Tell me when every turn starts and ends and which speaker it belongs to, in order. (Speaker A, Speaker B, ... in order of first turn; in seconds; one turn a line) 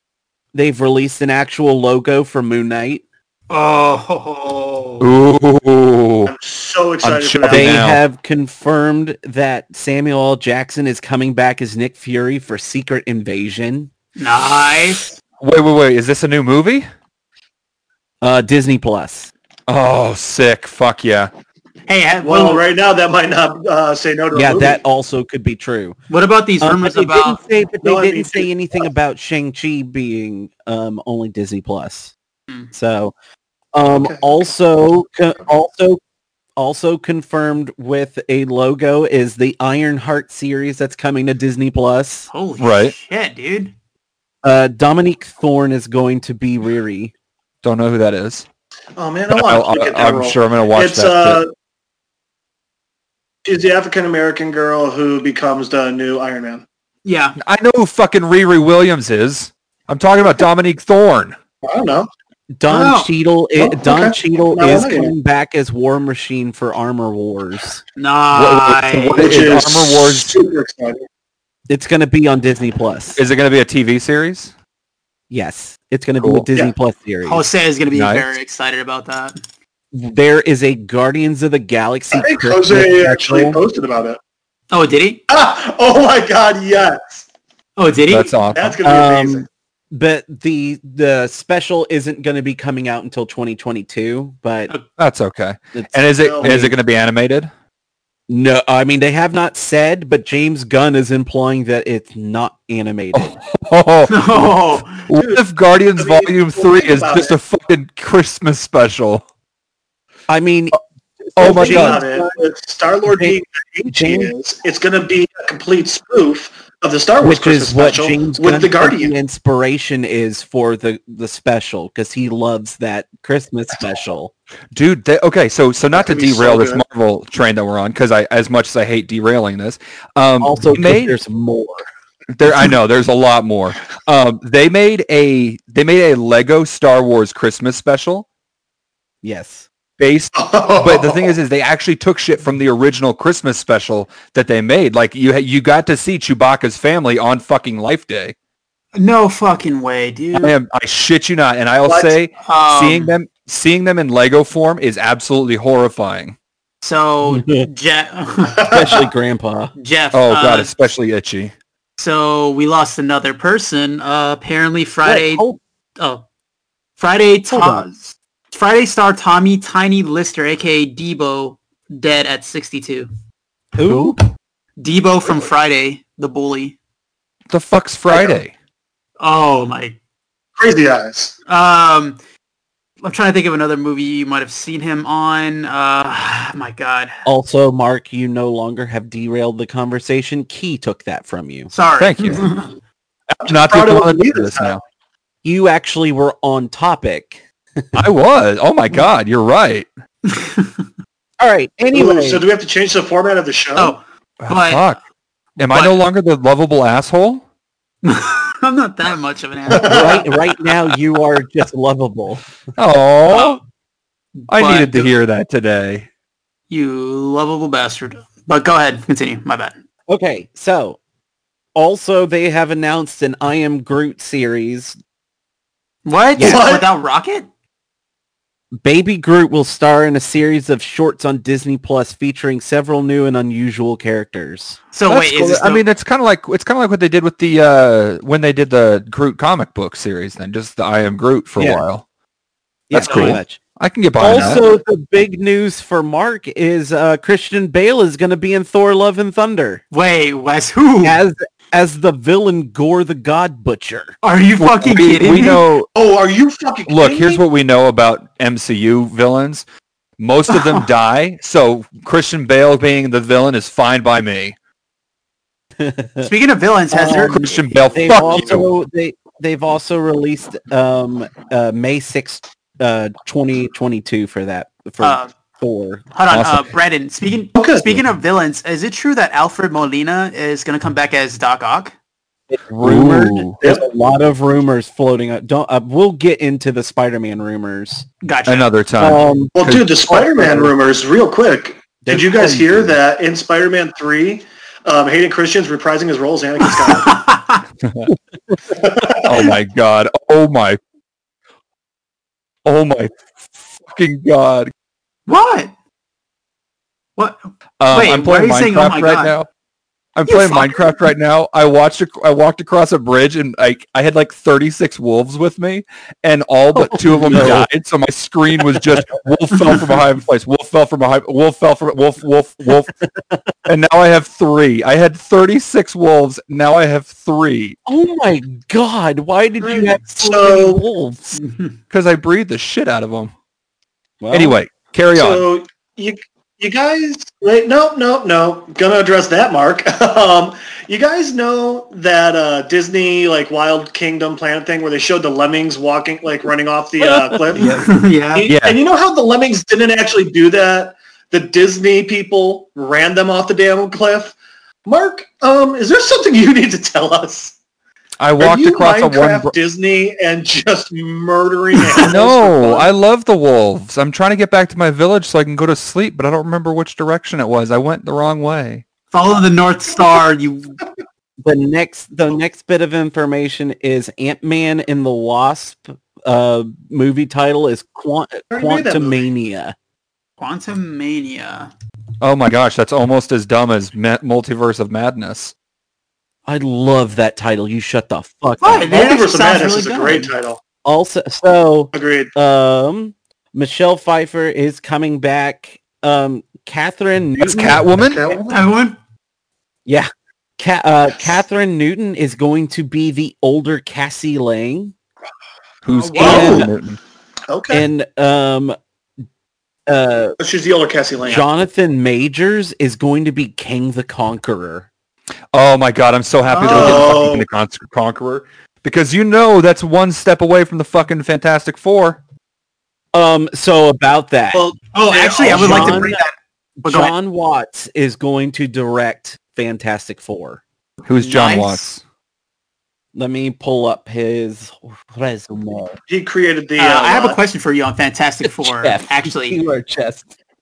Speaker A: 0.5-3.0
Speaker B: 3.5-5.1
Speaker C: 5.0-6.3
Speaker D: 6.3-7.8
Speaker C: 7.0-8.0
Speaker A: 7.5-13.9
Speaker B: 14.2-15.1
Speaker C: 15.4-16.9
Speaker A: 18.2-19.3
Speaker C: 19.7-21.3
Speaker B: 21.9-22.6
Speaker D: 22.2-24.8
Speaker A: 24.3-26.0
Speaker B: 26.1-27.4
Speaker A: 26.6-32.1
Speaker D: 27.8-28.9
Speaker A: 32.7-33.1
Speaker A: 33.7-36.0
Speaker D: 33.9-34.4
Speaker A: 36.6-42.3
Speaker B: 42.3-43.7
Speaker C: 42.6-43.0
Speaker A: 44.4-47.1
Speaker C: 47.6-48.5
Speaker D: 49.0-51.5
Speaker C: 49.3-51.4
Speaker D: 53.5-56.6
Speaker B: 57.0-57.4
Speaker C: 57.4-61.4
Speaker D: 61.6-62.1
Speaker A: 62.5-67.8
Speaker B: 62.7-63.1
Speaker D: 63.6-65.2
Speaker B: 68.0-69.4
Speaker C: 68.3-70.3
Speaker D: 69.2-71.0
Speaker A: 71.7-73.2
Speaker C: 73.2-74.5
Speaker A: 75.3-77.4
Speaker C: 76.2-76.5
Speaker B: 77.3-79.4
Speaker C: 77.9-78.3
Speaker A: 79.9-83.6
Speaker D: 82.1-84.2
Speaker B: 84.7-85.2
Speaker D: 85.3-87.2
Speaker B: 87.8-88.3
Speaker C: 88.1-88.8
Speaker D: 88.5-89.5
Speaker A: 88.8-94.7
Speaker C: 95.0-97.5
Speaker A: 95.8-96.8
Speaker D: 96.2-96.5
Speaker A: 98.3-103.3
Speaker C: 103.1-104.5
Speaker B: 104.1-105.0
Speaker C: 105.1-109.2
Speaker D: 105.1-107.4
Speaker A: 110.3-112.4
Speaker C: 111.4-112.0
Speaker D: 111.4-119.1
Speaker A: 113.1-114.3
Speaker A: 117.2-124.3
Speaker C: 124.7-131.2
Speaker D: 125.9-126.8
Speaker A: 130.4-131.9
Speaker C: 132.3-138.3
Speaker A: 139.2-139.7
Speaker C: 140.0-148.3
Speaker D: 140.4-141.3
Speaker B: 148.9-150.6
Speaker C: 150.4-156.4
Speaker D: 151.9-152.1
Speaker B: 152.4-153.2
Speaker B: 156.8-158.7
Speaker A: 157.3-157.7
Speaker A: 158.7-159.7
Speaker B: 159.8-160.8
Speaker C: 160.1-161.5
Speaker B: 162.0-165.4
Speaker A: 165.0-165.6
Speaker B: 166.0-166.2
Speaker B: 167.0-173.1
Speaker A: 167.5-167.9
Speaker A: 173.8-174.2
Speaker B: 173.8-174.1
Speaker B: 174.8-176.8
Speaker C: 177.5-178.5
Speaker D: 178.1-178.4
Speaker B: 179.2-180.0
Speaker D: 180.6-181.3
Speaker B: 181.5-182.2
Speaker B: 183.0-187.2
Speaker A: 187.2-191.7
Speaker B: 191.7-192.7
Speaker C: 192.0-192.5
Speaker C: 193.3-194.8
Speaker D: 193.4-194.8
Speaker A: 195.4-198.0
Speaker C: 197.9-199.9
Speaker B: 200.2-200.9
Speaker A: 201.4-202.4
Speaker D: 201.9-204.0
Speaker B: 203.8-205.0
Speaker C: 204.4-205.0
Speaker C: 205.6-207.4
Speaker B: 205.6-206.0
Speaker B: 208.0-211.0
Speaker D: 209.7-210.3
Speaker A: 209.8-212.4
Speaker C: 212.8-213.6
Speaker B: 213.3-213.6
Speaker B: 214.4-215.1
Speaker C: 214.5-216.1
Speaker B: 216.7-219.7
Speaker A: 220.1-221.0
Speaker A: 221.8-225.0
Speaker B: 226.1-227.5
Speaker A: 226.4-226.6
Speaker D: 226.4-226.9
Speaker A: 228.7-234.8
Speaker B: 234.9-235.8
Speaker C: 235.1-242.0
Speaker A: 241.6-241.8
Speaker A: 242.9-243.6
Speaker C: 242.9-244.6
Speaker B: 243.1-243.4
Speaker A: 244.2-249.8
Speaker B: 244.3-244.6
Speaker B: 249.9-251.2
Speaker A: 251.0-254.2
Speaker B: 254.2-255.7
Speaker C: 254.6-255.9
Speaker D: 255.9-257.4
Speaker C: 256.9-259.6
Speaker C: 260.2-264.6
Speaker B: 260.5-260.9
Speaker A: 265.8-266.3
Speaker B: 266.2-267.6
Speaker A: 266.9-267.4
Speaker C: 267.1-268.7
Speaker A: 267.9-276.0
Speaker B: 275.0-275.3
Speaker B: 276.1-281.9
Speaker C: 276.3-276.7
Speaker D: 277.6-277.9
Speaker A: 282.5-288.1
Speaker C: 282.8-283.5
Speaker B: 288.2-288.7
Speaker C: 288.5-290.0
Speaker A: 289.0-289.6
Speaker D: 289.6-297.2
Speaker A: 290.1-290.7
Speaker A: 292.0-293.0
Speaker B: 296.6-297.6
Speaker C: 297.8-298.1
Speaker D: 298.8-299.5
Speaker C: 299.2-300.8
Speaker C: 302.6-303.2
Speaker C: 303.8-304.7
Speaker B: 305.3-305.7
Speaker B: 307.2-309.3
Speaker C: 307.8-309.5
Speaker C: 310.2-322.9
Speaker B: 310.3-311.0
Speaker A: 316.8-317.7
Speaker A: 318.8-319.1
Speaker C: 323.7-327.8
Speaker A: 327.9-331.4
Speaker D: 329.6-330.8
Speaker B: 331.3-331.7
Speaker C: 331.9-333.3
Speaker A: 334.2-334.6
Speaker C: 334.3-335.4
Speaker D: 335.1-347.8
Speaker A: 347.0-347.9
Speaker B: 347.6-348.5
Speaker D: 348.3-354.4
Speaker C: 348.5-348.8
Speaker D: 354.9-357.6
Speaker C: 358.2-359.5
Speaker D: 358.4-362.9
Speaker B: 361.8-362.1
Speaker C: 362.0-368.9
Speaker B: 369.1-370.8
Speaker A: 371.4-379.7
Speaker D: 378.5-379.3
Speaker B: 380.4-381.7
Speaker C: 382.2-385.5
Speaker A: 386.5-388.9
Speaker B: 388.6-390.3
Speaker D: 388.8-390.6
Speaker A: 390.9-397.9
Speaker D: 391.9-392.3
Speaker C: 397.4-398.2
Speaker D: 397.9-398.6
Speaker B: 398.5-399.0
Speaker A: 399.9-404.9
Speaker C: 405.8-407.0
Speaker B: 405.9-406.7
Speaker A: 406.2-406.7
Speaker D: 406.2-406.7
Speaker D: 407.5-407.9
Speaker A: 407.7-408.8
Speaker A: 409.9-410.4
Speaker D: 410.4-411.4
Speaker A: 411.2-414.9
Speaker C: 415.5-422.2
Speaker B: 416.5-417.1
Speaker D: 416.6-417.5
Speaker A: 423.1-426.2
Speaker D: 424.5-426.1
Speaker B: 424.9-426.3
Speaker A: 426.8-430.6
Speaker B: 426.9-427.1
Speaker C: 431.1-432.0
Speaker B: 431.2-431.8
Speaker A: 433.1-436.0
Speaker D: 436.1-437.4
Speaker B: 436.8-439.6
Speaker A: 438.4-440.3